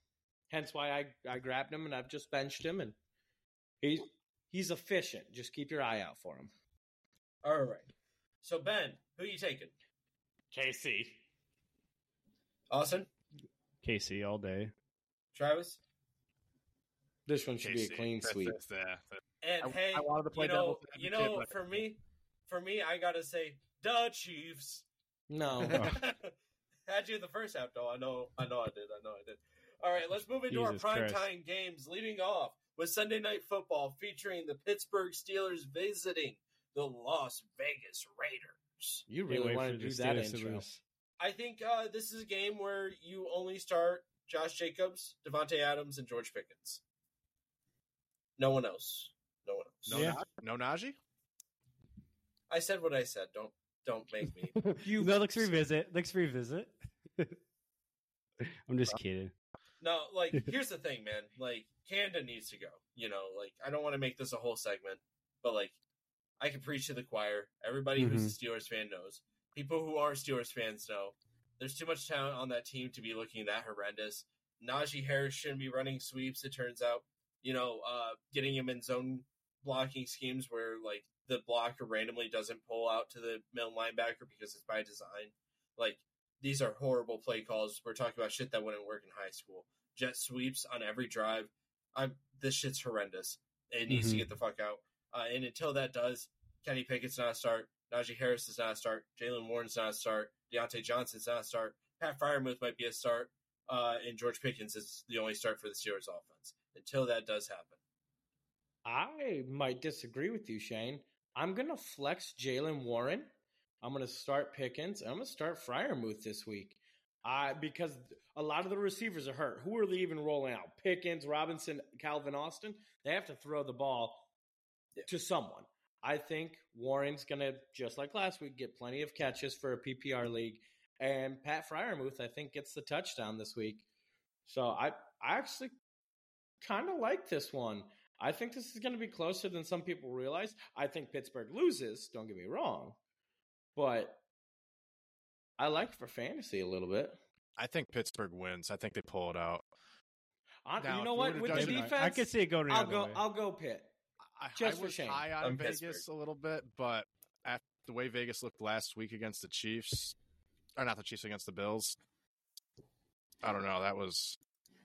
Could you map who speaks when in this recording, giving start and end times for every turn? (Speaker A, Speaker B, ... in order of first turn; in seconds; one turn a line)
Speaker A: 0.5-2.9
Speaker A: 3.8-6.5
Speaker B: 7.4-7.9
Speaker B: 8.4-9.7
Speaker A: 10.5-11.2
Speaker B: 12.7-13.1
Speaker C: 13.8-14.7
Speaker B: 15.3-15.8
Speaker A: 17.2-18.6
Speaker D: 17.6-21.5
Speaker B: 19.4-24.8
Speaker A: 25.3-25.9
Speaker B: 25.6-26.3
Speaker C: 25.7-26.0
Speaker B: 26.9-39.0
Speaker C: 30.5-31.2
Speaker A: 39.1-40.6
Speaker C: 39.3-40.8
Speaker B: 41.2-46.8
Speaker B: 48.4-50.1
Speaker D: 49.9-51.0
Speaker C: 49.9-50.2
Speaker B: 52.5-54.5
Speaker C: 54.5-57.4
Speaker A: 54.8-55.5
Speaker C: 58.7-59.3
Speaker B: 59.8-65.8
Speaker B: 66.4-107.8
Speaker C: 68.0-68.3
Speaker C: 93.9-94.2
Speaker A: 108.8-124.3
Speaker A: 125.1-133.8
Speaker A: 134.4-135.7
Speaker A: 136.6-143.0
Speaker A: 143.8-144.2
Speaker A: 145.6-147.2
Speaker D: 147.6-149.6
Speaker A: 150.6-153.9
Speaker D: 150.8-151.9
Speaker C: 151.5-153.2
Speaker D: 154.3-160.2
Speaker A: 154.6-155.2
Speaker B: 155.4-156.0
Speaker D: 160.8-162.0
Speaker D: 163.4-164.4